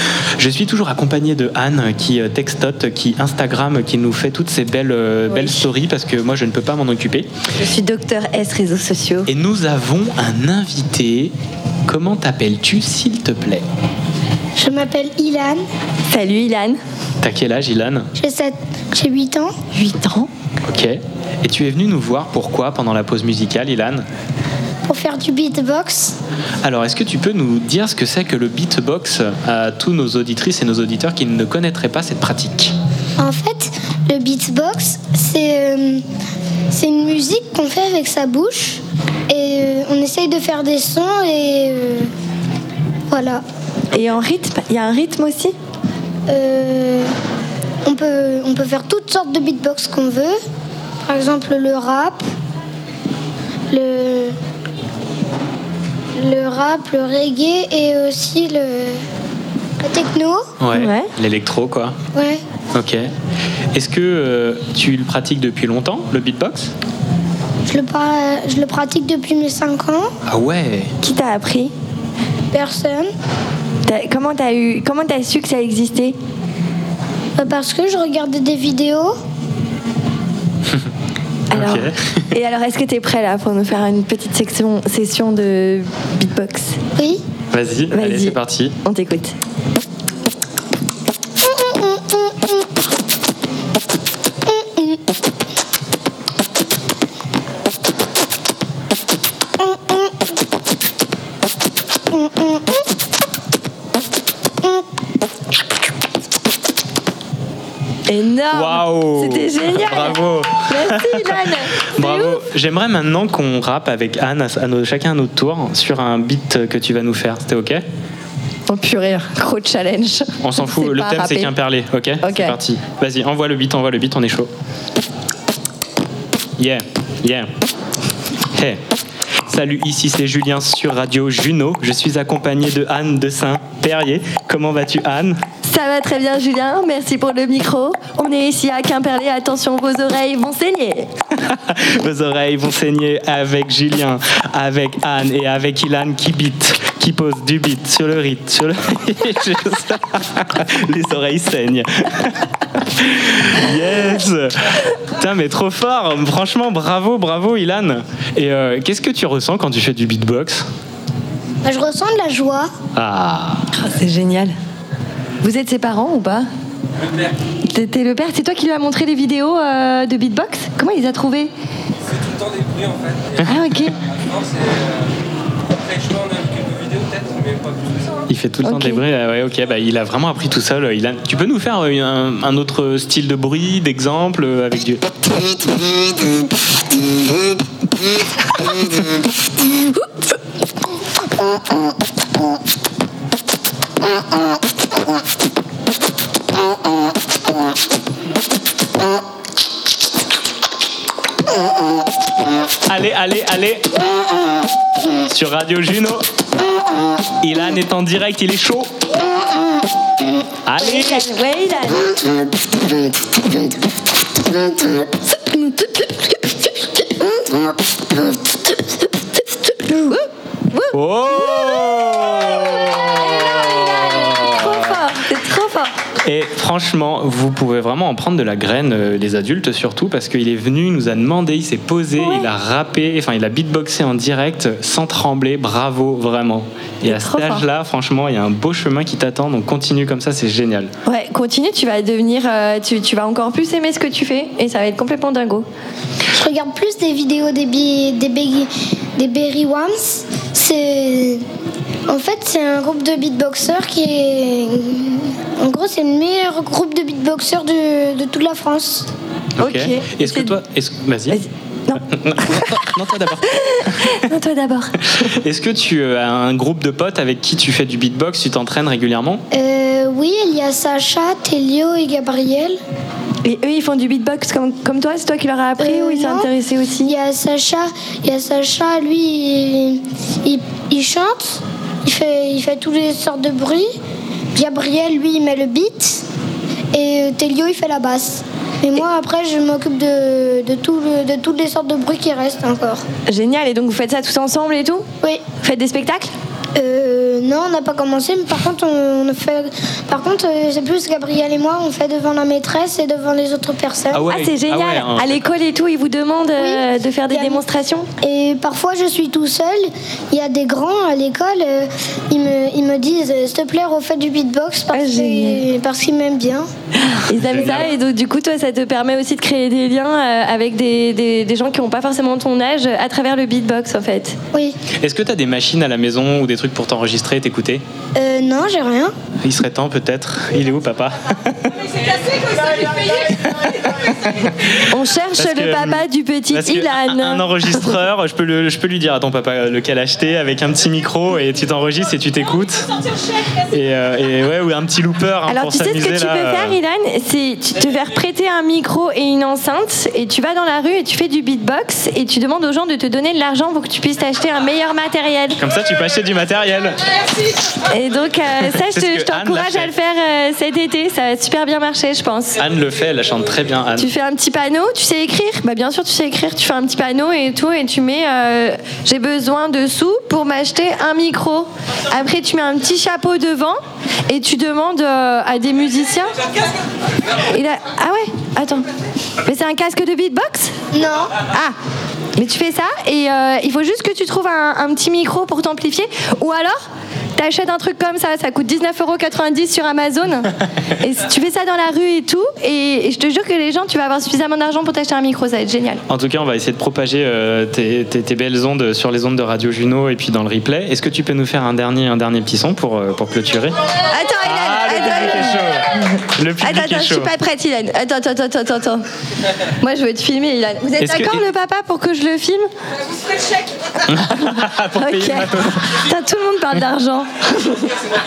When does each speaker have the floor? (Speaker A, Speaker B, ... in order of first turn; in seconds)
Speaker A: 0.4-7.3, 9.2-11.3, 11.8-13.7, 17.2-18.1, 20.6-24.0, 26.6-32.7, 60.6-62.0, 62.7-63.1, 63.7-66.7, 70.3-70.9, 81.5-82.3, 87.5-88.8, 108.5-117.8, 120.4-124.5, 126.6-127.5, 128.5-128.8, 129.5-135.4, 141.4-160.7, 162.9-163.7, 178.3-185.0, 202.9-203.9, 205.2-206.2, 207.4-208.9, 210.7-211.3, 220.9-225.0, 226.2-240.9, 259.6-261.4, 262.0-264.2, 265.1-269.4, 304.1-305.4, 317.3-317.9, 325.0-327.8, 329.4-331.8, 333.6-334.8, 335.4-342.9, 343.7-346.8, 355.6-357.1, 358.7-359.9, 362.6-364.1, 396.1-403.7, 404.4-407.3, 411.0-411.4, 414.1-415.9
Speaker B: 7.6-9.3, 16.1-16.8, 19.7-20.3, 43.9-45.5, 60.7-61.1, 71.0-71.7, 73.8-76.2, 81.5-86.8, 87.9-89.3, 108.1-112.4, 118.7-121.5, 122.2-122.5, 135.6-141.1, 163.7-164.5, 165.4-166.5, 167.7-171.5, 173.4-174.0, 178.6-179.0, 210.8-212.2, 215.0-216.7, 219.7-225.9, 232.2-232.5, 237.1-237.7, 241.1-245.7, 259.6-260.6, 261.3-265.0, 273.4-277.1, 293.3-295.1, 295.6-296.3, 304.3-308.1, 314.9-315.6, 317.1-324.4, 334.8-337.9, 345.5-355.6, 357.8-362.6, 364.0-376.4, 377.5-378.9, 379.4-380.7, 381.4-381.7, 382.4-386.8, 387.4-396.0, 404.1-405.8, 406.6-409.0, 409.6-412.7, 414.9-417.9
Speaker C: 14.6-15.6, 18.1-19.6, 24.9-26.1, 33.2-36.0, 36.7-42.1, 43.1-43.4, 46.3-47.1, 47.8-50.4, 51.1-52.2, 53.7-54.4, 56.2-59.0, 59.8-60.4, 62.1-62.4, 67.7-70.1, 72.5-73.1, 77.4-79.1, 87.0-87.2, 91.4-92.6, 94.5-95.0, 99.6-100.1, 102.1-102.8, 161.6-162.7, 246.3-251.4, 252.1-259.1, 269.5-272.8, 275.8-276.5, 277.0-283.9, 284.5-286.2, 286.9-293.0, 296.8-304.2, 306.6-307.6, 308.2-316.6, 328.1-329.1, 380.9-381.4
Speaker D: 172.5-173.3, 174.4-174.7, 176.0-177.6